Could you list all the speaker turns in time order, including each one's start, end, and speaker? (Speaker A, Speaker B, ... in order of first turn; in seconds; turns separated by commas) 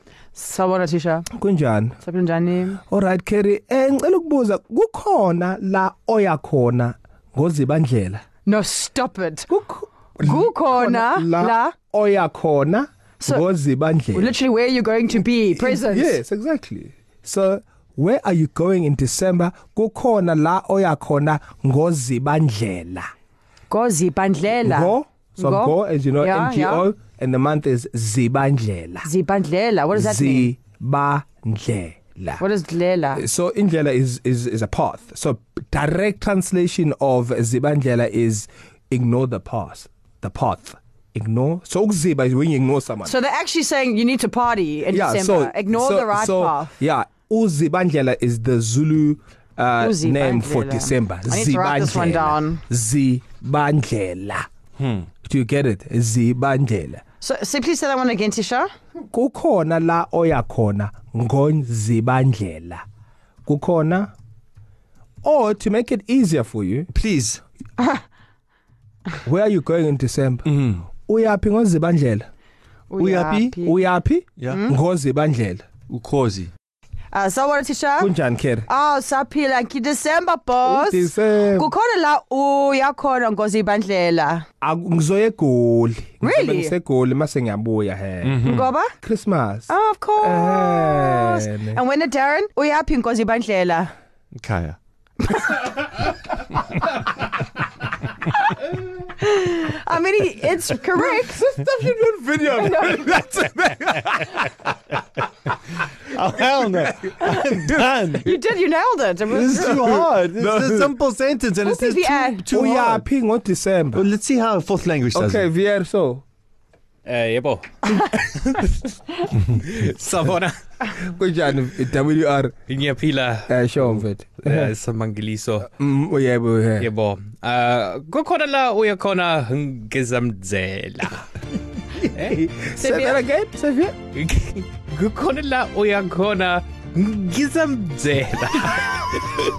Speaker A: 0.3-1.3, Speaker B: 1.3-2.0, Speaker A: 2.0-2.8, Speaker B: 2.9-8.2, Speaker A: 8.4-9.5, Speaker B: 9.5-14.3, Speaker A: 10.2-11.7, Speaker A: 14.1-16.2, Speaker B: 15.5-23.1, Speaker A: 23.7-26.9, Speaker B: 24.6-29.1, Speaker A: 29.0-30.5, Speaker B: 29.9-32.4, Speaker A: 32.4-33.2, Speaker B: 33.1-43.1, Speaker A: 43.0-46.7, Speaker B: 44.9-54.5, Speaker A: 49.8-52.6, Speaker C: 54.8-55.1, Speaker B: 55.2-57.0, Speaker A: 57.2-58.7, Speaker B: 59.1-62.8, Speaker B: 63.4-64.1, Speaker B: 65.2-66.9, Speaker C: 66.9-67.4, Speaker A: 67.8-68.0, Speaker B: 69.2-70.5, Speaker C: 70.5-70.9, Speaker B: 71.0-72.3, Speaker A: 72.9-73.9, Speaker C: 73.0-73.5, Speaker B: 73.6-75.6, Speaker C: 74.4-74.6, Speaker A: 74.5-74.8, Speaker C: 75.9-76.5, Speaker A: 77.1-78.1, Speaker B: 78.0-78.7, Speaker A: 78.7-84.4, Speaker B: 80.6-81.7, Speaker B: 84.6-88.5, Speaker A: 86.2-86.7, Speaker C: 88.2-88.7, Speaker A: 88.4-88.9, Speaker B: 89.0-89.7, Speaker A: 89.7-93.9, Speaker B: 90.2-91.8, Speaker C: 94.3-94.8, Speaker A: 95.2-96.0, Speaker A: 99.1-101.5, Speaker B: 100.9-104.7, Speaker A: 102.5-103.2, Speaker C: 106.0-108.3, Speaker B: 106.4-107.8, Speaker A: 108.2-110.0, Speaker C: 109.3-113.0, Speaker B: 109.5-110.9, Speaker A: 111.6-112.4, Speaker B: 112.5-114.0, Speaker C: 113.9-115.5, Speaker B: 115.1-116.2, Speaker D: 117.0-117.8, Speaker D: 119.5-120.6, Speaker B: 121.0-122.6, Speaker D: 122.7-123.5, Speaker B: 123.5-124.7, Speaker D: 124.4-125.7, Speaker B: 125.7-126.9, Speaker D: 126.8-131.3, Speaker B: 131.9-134.0, Speaker A: 132.8-133.2, Speaker D: 134.1-139.0